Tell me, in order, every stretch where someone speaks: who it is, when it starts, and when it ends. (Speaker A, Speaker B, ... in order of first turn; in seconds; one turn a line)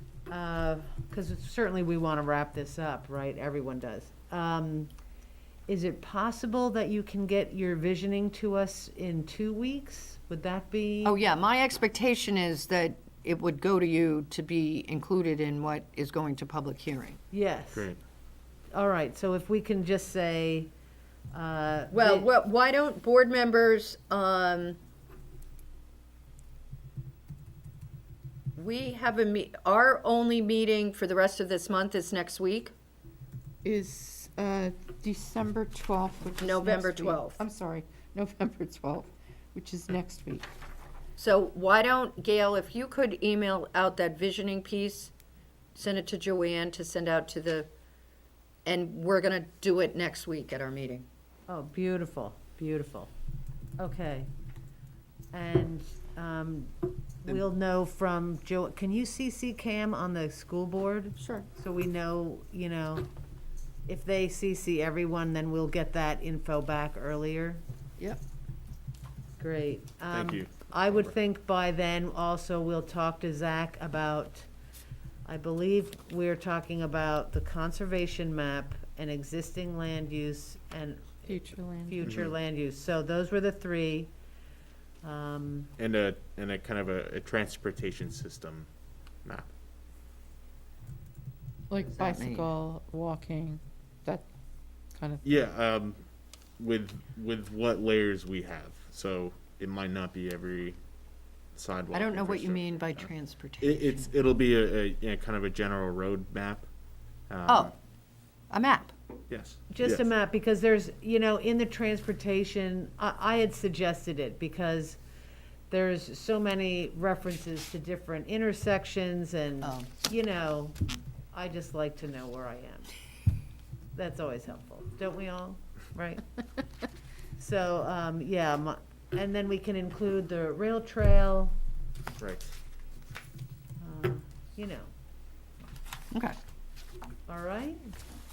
Speaker A: 0.3-4.9
Speaker A: 5.7-11.2
Speaker B: 11.0-17.2
Speaker A: 17.3-17.9
Speaker C: 17.7-18.0
Speaker A: 18.7-20.7
Speaker A: 21.3-22.3
Speaker B: 21.9-24.8
Speaker B: 28.6-32.7
Speaker D: 33.6-40.5
Speaker B: 36.4-37.4
Speaker B: 41.2-45.1
Speaker B: 45.7-47.7
Speaker B: 48.6-51.0
Speaker A: 51.5-53.1
Speaker A: 53.8-54.3
Speaker A: 55.3-63.0
Speaker B: 61.2-61.5
Speaker A: 63.9-67.6
Speaker A: 69.4-74.5
Speaker C: 70.1-71.1
Speaker A: 75.2-84.1
Speaker D: 81.2-82.1
Speaker C: 82.0-82.3
Speaker A: 85.0-85.7
Speaker C: 85.8-88.7
Speaker D: 91.7-94.2
Speaker B: 91.8-92.5
Speaker D: 94.9-95.4
Speaker C: 95.2-96.0
Speaker C: 96.6-100.8
Speaker C: 101.5-106.7
Speaker B: 101.9-104.1
Speaker C: 107.3-107.7
Speaker B: 108.5-108.9
Speaker C: 109.3-110.1
Speaker A: 109.7-115.0
Speaker A: 115.7-120.8
Speaker B: 119.6-119.9
Speaker A: 121.3-122.9
Speaker A: 123.9-126.2
Speaker A: 127.4-131.5
Speaker C: 132.1-132.5
Speaker A: 133.8-134.9
Speaker B: 136.1-136.4
Speaker A: 137.3-137.8